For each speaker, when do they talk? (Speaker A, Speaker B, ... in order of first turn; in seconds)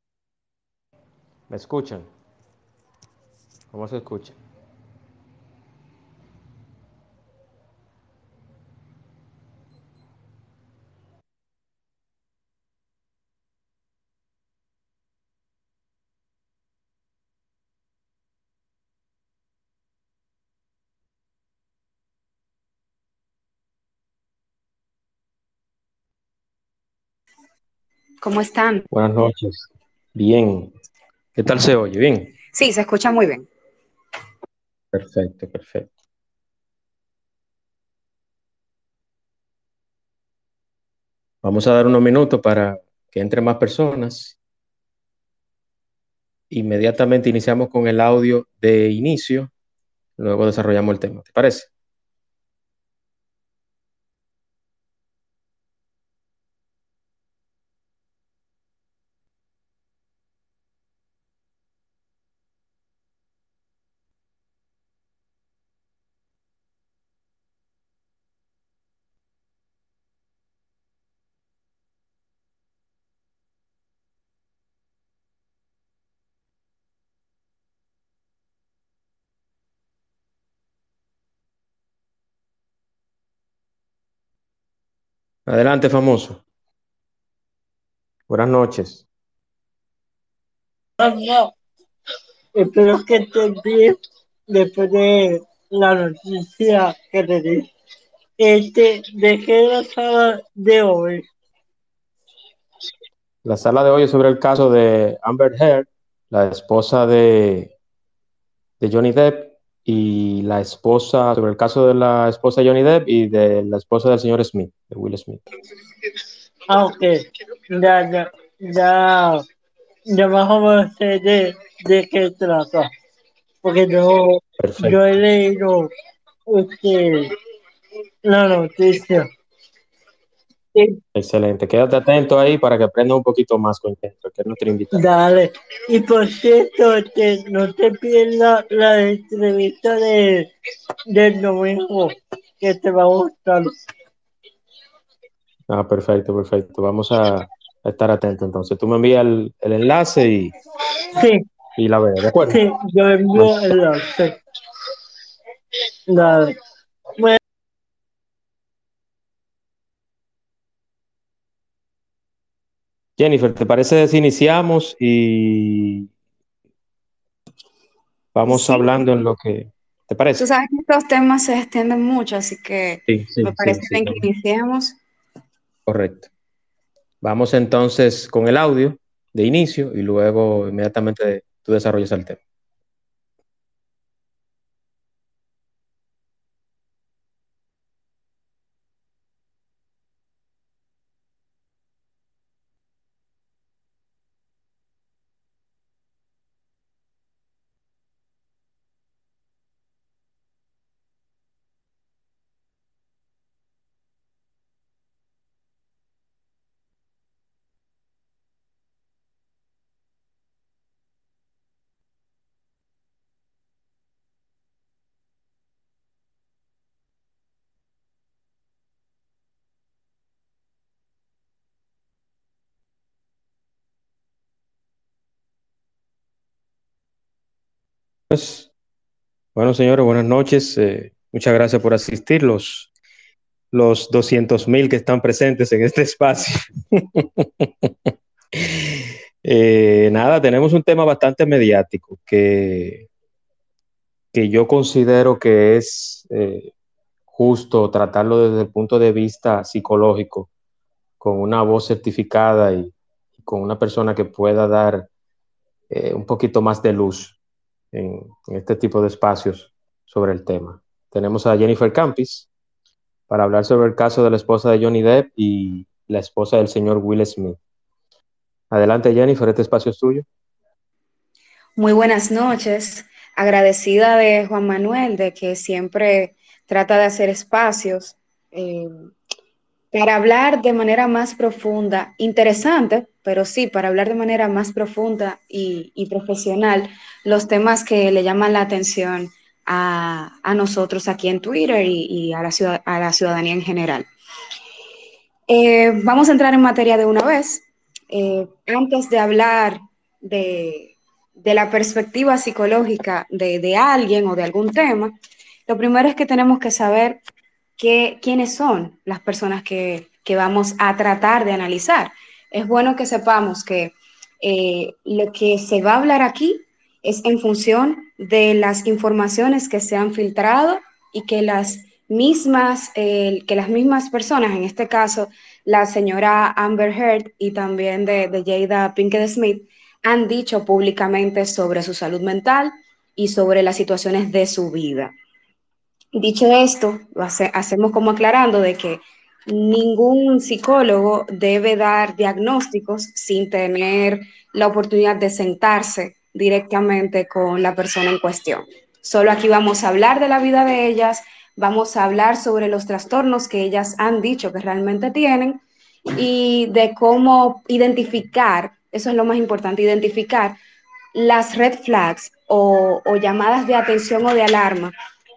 Speaker A: 1.5-2.1, 3.7-4.4, 28.9-30.7, 31.4-32.3, 34.9-35.9, 41.4-44.4, 46.5-49.5, 50.2-51.7, 85.5-86.4, 88.3-89.0, 103.5-107.7, 108.8-115.4, 124.6-125.1, 131.1-135.0, 145.7-150.6, 151.8-152.6, 153.3-153.6, 163.2-166.1, 168.3-170.5, 173.1-174.2, 175.9-176.3, 177.2-182.4, 228.3-228.7, 229.6-232.9, 233.7-243.1, 244.3-246.7, 247.3-250.5, 251.2-255.1, 255.9-257.4, 257.9-262.5, 263.3-267.6, 268.7-270.2
Speaker B: 28.2-28.9, 32.5-33.5, 168.5-168.9, 170.4-175.0, 271.8-278.9, 279.9-294.1, 295.5-305.1, 305.7-307.2, 307.8-335.1, 336.1-355.6, 356.1-360.6, 361.1-364.9
Speaker C: 91.0-91.5, 92.5-94.0, 94.5-97.7, 98.4-101.2, 116.7-119.4, 120.1-122.9, 123.6-125.9, 126.5-127.3, 128.2-129.3, 134.9-140.5, 141.1-143.8, 151.2-151.4, 152.5-154.4, 156.1-156.6